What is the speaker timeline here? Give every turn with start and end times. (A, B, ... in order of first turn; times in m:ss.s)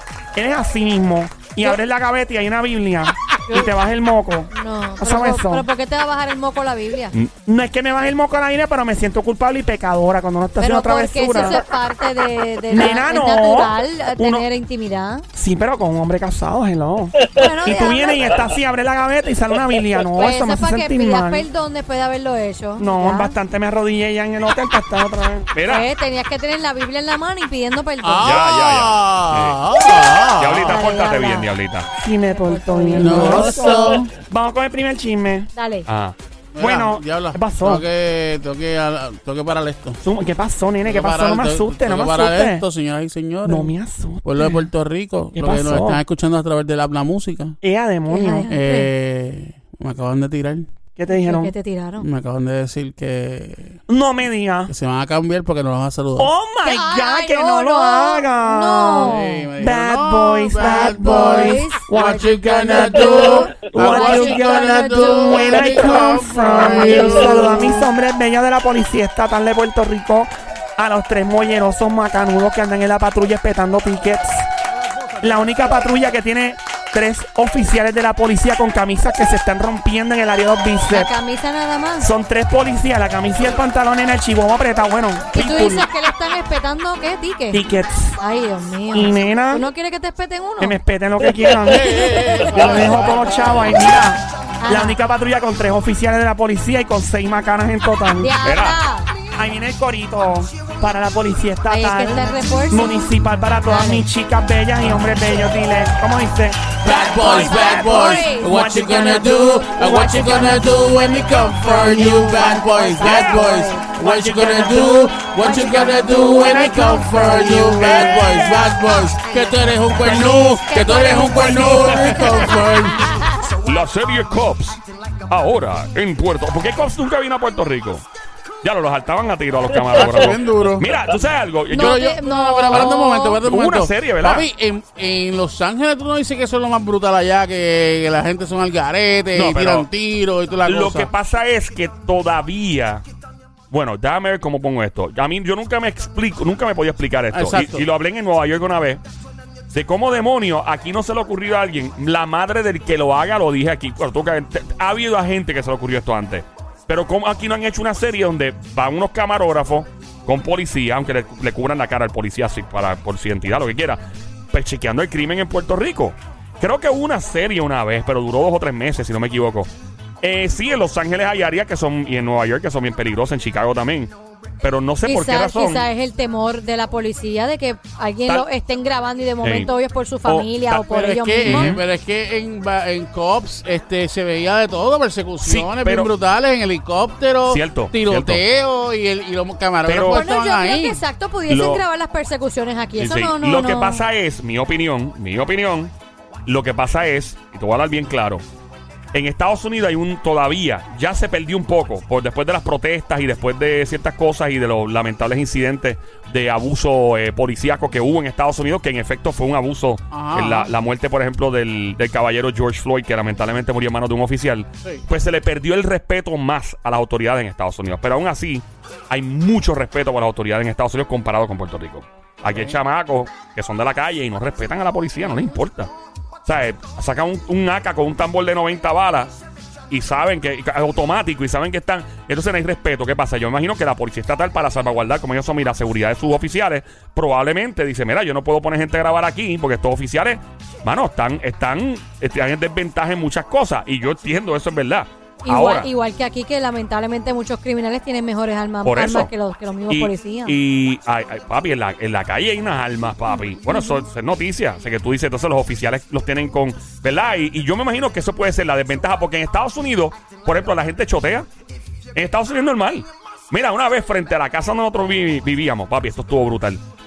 0:00.4-0:05.7 A
0:03.5-0:03.7 B
0:04.5-0:07.2 B
0:07.4-0:11.6 A
0:10.6-0:15.2 B
0:12.7-0:14.4 A
0:15.3-0:21.5 A
0:17.3-0:18.3 B
0:20.2-0:23.4 B
0:22.8-0:25.5 A
0:25.5-0:25.9 C
0:25.6-0:28.4 B
0:28.0-0:30.8 D
0:28.2-0:29.6 C
0:30.4-0:31.9 C
0:30.6-0:31.5 B
0:31.9-0:35.5 A
0:32.3-0:33.6 B
0:33.0-0:34.1 D
0:35.5-0:35.9 B
0:35.9-0:36.2 C
0:36.6-0:40.0 D
0:36.6-0:37.9 A
0:40.0-0:42.7 A
0:40.9-0:43.7 D
0:43.4-0:44.7 A
0:44.2-0:47.6 D
0:45.3-0:46.0 A
0:47.6-0:48.5 A
0:48.1-0:48.9 B
0:48.5-0:50.7 D
0:51.0-0:51.5 A
0:51.1-0:52.1 B
0:52.0-0:53.8 D
0:53.9-0:54.7 A
0:54.7-0:56.3 D
0:56.2-1:14.5 A
0:56.6-0:59.5 B
0:59.0-1:07.9 D
1:00.6-1:07.2 B
1:15.2-1:21.1 A
1:20.9-1:22.1 B
1:22.0-1:25.9 A
1:25.3-1:27.6 B
1:27.5-1:28.2 A
1:28.2-1:30.8 B
1:28.9-1:29.7 A
1:30.6-1:38.3 A
1:31.6-1:33.5 D
1:32.0-1:32.5 B
1:34.6-1:35.0 B
1:38.2-1:39.1 B
1:38.4-1:38.8 C
1:39.4-1:50.7 A
1:41.7-1:43.0 B
1:43.7-1:44.0 B
1:46.8-2:03.1 D
1:47.0-1:48.8 B
1:49.8-1:50.5 B
1:51.5-1:58.7 A
1:52.4-1:53.7 B
1:55.4-1:56.0 B
1:58.2-1:58.7 B
2:00.0-2:03.6 B
2:00.3-2:00.8 A
2:03.6-2:08.0 C
2:08.6-2:12.1 C
2:09.9-2:10.9 D
2:11.7-2:13.4 B
2:11.7-2:21.1 D
2:12.7-2:14.5 C
2:19.3-2:19.9 C
2:20.6-2:23.0 C
2:23.7-2:29.0 C
2:27.3-2:27.8 D
2:29.7-2:49.7 C
2:50.2-2:55.9 C
2:55.0-3:01.8 B
2:59.4-2:59.7 C
3:00.3-3:00.8 C
3:00.9-3:11.0 D
3:01.4-3:01.8 C
3:05.4-3:06.1 C
3:07.5-3:08.4 C
3:09.8-3:10.2 C
3:10.0-3:14.0 B
3:11.5-3:11.8 C
3:13.0-3:15.9 C
3:16.5-3:18.4 C
3:19.1-3:45.9 C
3:30.1-3:30.7 D
3:42.5-3:42.8 D
3:46.4-3:49.4 C
3:49.9-4:05.9 C
4:05.4-4:10.6 B
4:08.8-4:09.3 C
4:09.9-4:21.5 C
4:22.2-4:26.8 C